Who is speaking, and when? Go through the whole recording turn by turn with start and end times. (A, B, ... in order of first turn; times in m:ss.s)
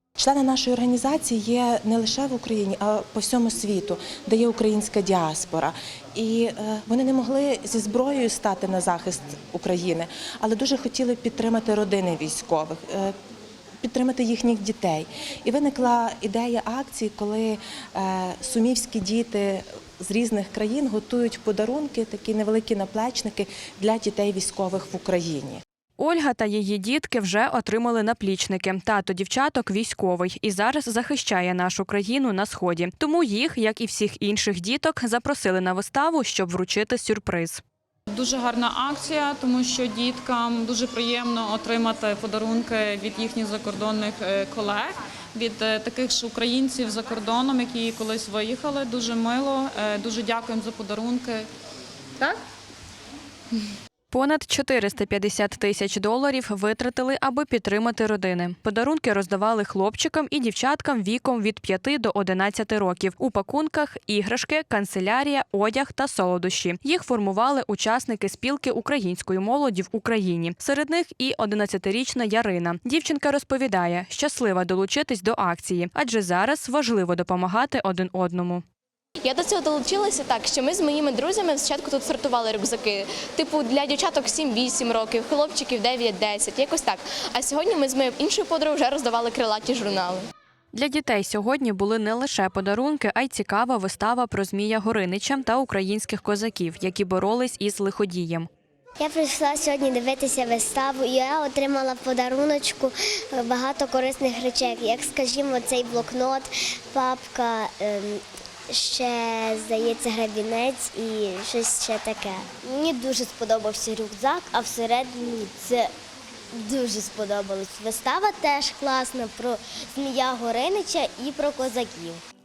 0:00.2-0:13.2 A
0:13.8-0:25.6 A
0:26.0-0:37.6 B
0:38.1-0:51.5 C
0:54.1-1:18.6 B
1:19.2-1:30.3 D
1:30.7-1:38.5 B
1:39.0-1:55.9 E
1:56.6-2:02.2 E